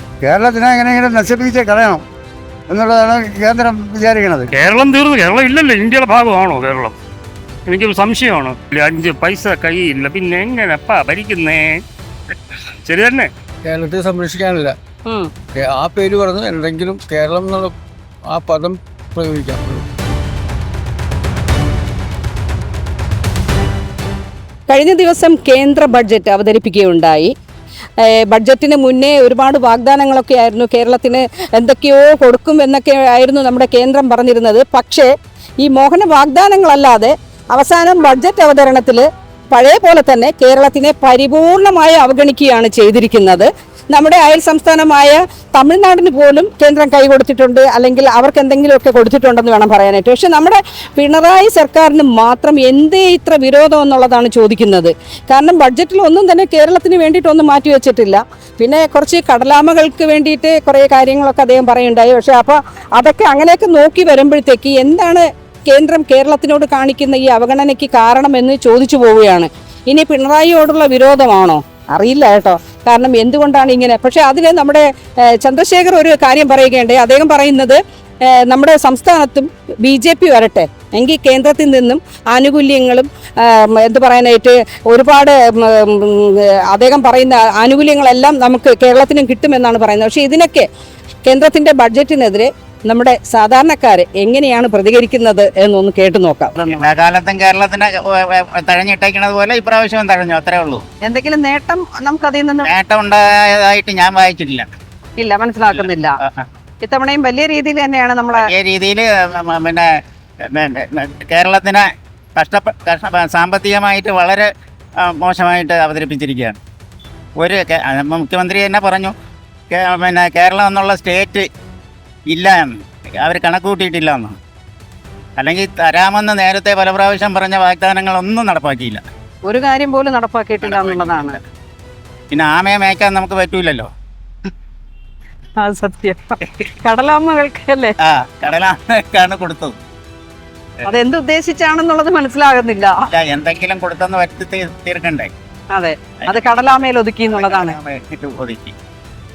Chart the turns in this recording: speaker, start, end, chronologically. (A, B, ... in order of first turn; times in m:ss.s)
0:00.2-0:02.0 A
0:02.7-0:04.5 A
0:04.5-0:06.9 B
0:07.6-0:11.6 B
0:12.8-0:13.3 B
0:13.6-0:14.8 C
0:15.0-0:15.3 D
0:15.5-0:17.7 C
0:18.2-0:19.9 C
0:24.7-0:27.3 D
0:28.0-1:30.7 D
1:31.2-1:36.8 D
1:36.7-1:40.8 E
1:41.0-1:42.7 D
1:42.6-1:44.7 E
1:45.2-1:46.1 D
1:45.7-1:46.4 E
1:46.8-1:48.4 D
1:48.4-1:49.9 E
1:50.4-1:51.8 E
1:52.4-1:54.5 E
1:55.0-1:56.6 E
1:57.4-1:59.1 E
1:59.7-2:01.5 E
2:02.3-2:04.4 E
2:05.4-2:09.0 E
2:09.4-2:11.4 D
2:10.6-2:11.4 E
2:12.3-2:13.9 E
2:15.6-2:17.9 D
2:18.0-2:19.8 E
2:20.9-2:23.0 D
2:23.0-2:25.3 E
2:25.7-2:27.8 D
2:26.2-2:28.7 E